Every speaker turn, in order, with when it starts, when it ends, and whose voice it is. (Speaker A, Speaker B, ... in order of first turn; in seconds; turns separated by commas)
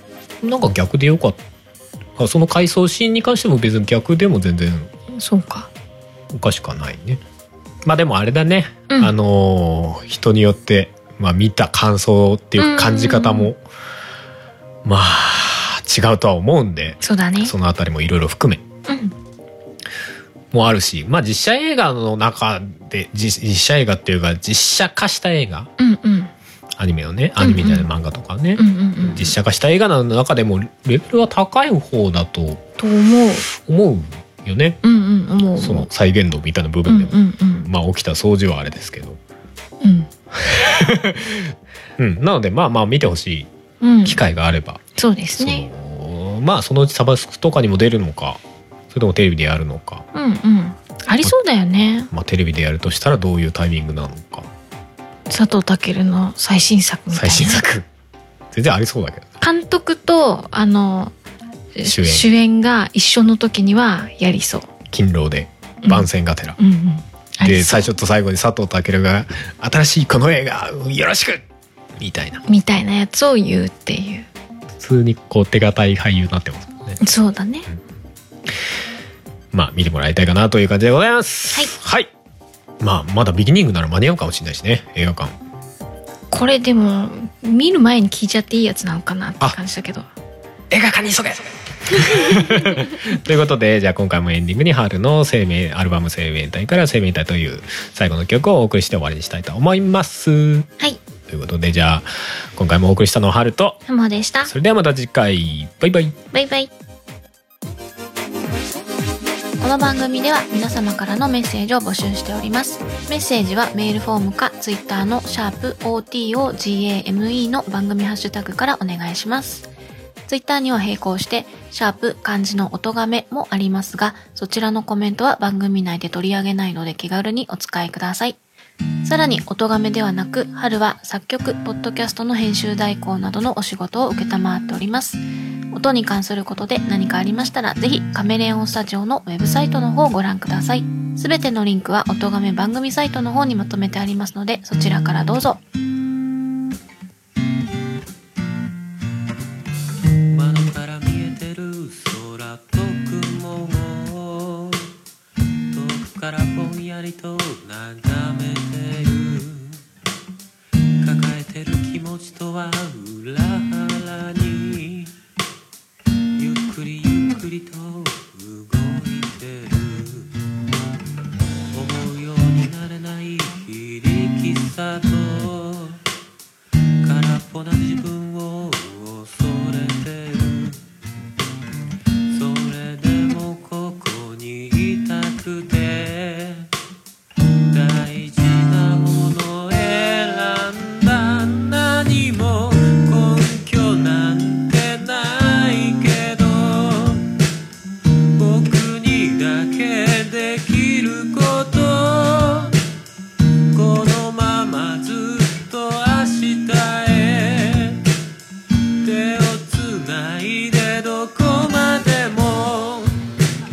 Speaker A: 0.4-1.4, Speaker A: 2.2-4.9, Speaker B: 5.1-5.7, Speaker A: 6.3-7.2, Speaker A: 7.8-13.6, Speaker B: 8.9-9.1, Speaker B: 12.6-13.5, Speaker A: 14.8-18.6, Speaker B: 17.0-17.5, Speaker B: 18.9-19.1, Speaker A: 20.5-25.7, Speaker B: 25.8-26.3, Speaker A: 26.8-32.7, Speaker B: 27.4-27.9, Speaker B: 28.6-29.4, Speaker B: 32.8-33.5, Speaker A: 33.5-34.8, Speaker B: 34.8-35.9, Speaker A: 35.5-39.2, Speaker B: 36.9-37.7, Speaker B: 39.8-40.1, Speaker A: 40.3-43.5, Speaker B: 43.8-44.2, Speaker A: 44.0-44.8, Speaker B: 45.0-45.7, Speaker A: 45.4-50.0, Speaker B: 50.1-52.1, Speaker A: 52.1-54.5, Speaker B: 55.3-57.6, Speaker A: 57.1-57.9, Speaker A: 58.5-59.3, Speaker B: 59.4-61.1, Speaker B: 61.7-64.7, Speaker A: 61.8-62.3, Speaker A: 64.9-66.6, Speaker B: 66.6-67.9, Speaker A: 67.4-71.4, Speaker A: 72.0-72.4, Speaker B: 72.4-74.3, Speaker A: 74.8-77.0, Speaker B: 77.0-77.7, Speaker A: 79.5-82.1, Speaker A: 82.8-85.4, Speaker B: 86.3-90.0, Speaker A: 90.7-100.7, Speaker B: 92.1-92.5, Speaker A: 101.3-103.8, Speaker B: 103.9-104.5, Speaker A: 104.4-106.2, Speaker B: 106.3-106.7, Speaker B: 109.6-119.7, Speaker B: 120.3-128.4, Speaker B: 129.0-135.2, Speaker B: 135.7-145.6, Speaker C: 150.3-154.9, Speaker C: 155.7-159.8, Speaker C: 161.0-165.1, Speaker C: 166.4-170.3, Speaker C: 171.7-176.0, Speaker C: 177.0-180.8, Speaker C: 182.3-186.7, Speaker C: 187.7-197.3, Speaker C: 198.3-202.8, Speaker C: 203.7-208.1, Speaker C: 209.0-213.2